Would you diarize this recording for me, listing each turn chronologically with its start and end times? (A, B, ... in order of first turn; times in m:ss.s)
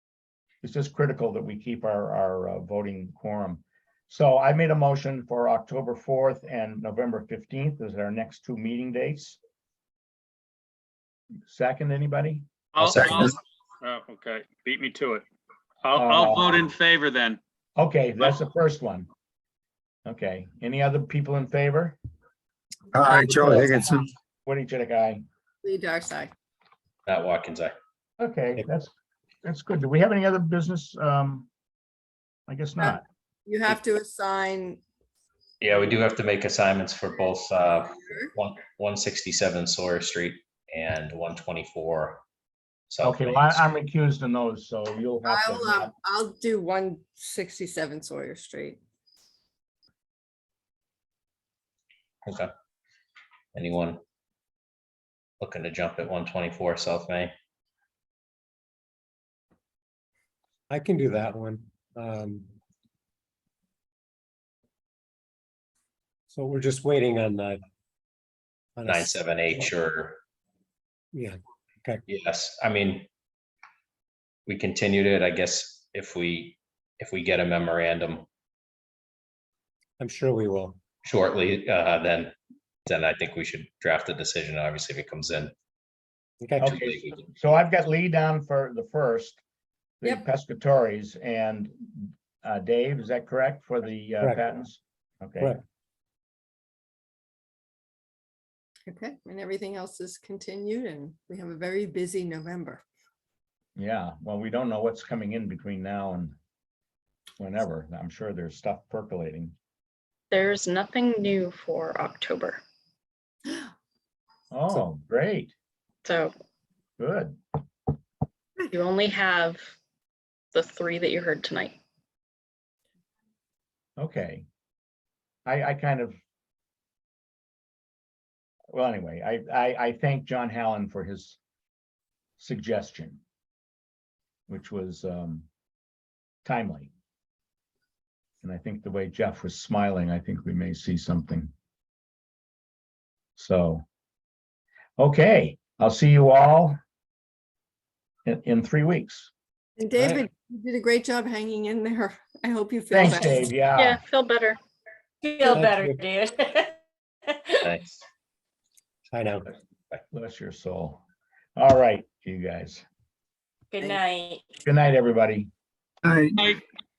0:00.6-0:09.4 A
0:11.5-0:12.4 A
0:12.7-0:15.2 B
0:12.9-0:13.3 C
0:15.8-0:17.4 B
0:16.0-0:16.6 A
0:17.8-0:19.1 A
0:20.0-0:22.0 A
0:22.9-0:24.1 C
0:23.0-0:23.8 D
0:24.4-0:25.2 A
0:25.6-0:26.3 D
0:27.1-0:27.7 E
0:28.2-0:28.9 A
0:29.4-0:31.5 A
0:32.5-0:33.0 A
0:32.8-0:34.8 D
0:35.6-0:42.2 E
0:38.0-0:38.3 D
0:42.9-0:43.7 E
0:43.0-0:45.9 A
0:45.2-0:48.8 D
0:53.5-0:54.0 E
0:55.4-0:57.3 E
1:00.7-1:02.5 F
1:06.3-1:07.6 F
1:08.8-1:09.7 F
1:08.8-1:10.2 E
1:11.1-1:12.0 F
1:12.1-1:13.1 E
1:14.5-1:18.2 E
1:20.0-1:20.8 F
1:21.0-1:22.3 E
1:22.8-1:25.5 E
1:26.4-1:26.7 F
1:26.6-1:29.4 A
1:26.6-1:27.3 E
1:30.0-1:35.6 A
1:38.9-1:42.8 D
1:43.8-1:46.4 A
1:47.4-1:49.5 A
1:50.3-1:52.6 G
1:54.5-1:55.5 A
1:56.0-1:56.3 G
1:57.0-1:57.4 A
1:58.7-1:59.7 G
2:00.5-2:01.8 G
2:04.0-2:04.4 A
2:05.4-2:06.2 A
2:08.7-2:11.4 A
2:12.4-2:13.2 A
2:14.5-2:15.4 A
2:16.4-2:16.9 A
2:18.4-2:21.5 A
2:23.4-2:23.8 A
2:25.0-2:26.8 A
2:28.2-2:29.3 A
2:29.8-2:33.5 D
2:32.9-2:34.0 A
2:33.7-2:34.6 G
2:35.2-2:36.7 H
2:35.5-2:36.0 F
2:37.3-2:37.6 H
2:37.6-2:38.0 E
2:39.1-2:39.5 F
2:40.1-2:41.0 A
2:41.6-2:42.8 A
2:43.7-2:44.4 H
2:44.6-2:45.5 A
2:46.0-2:46.4 C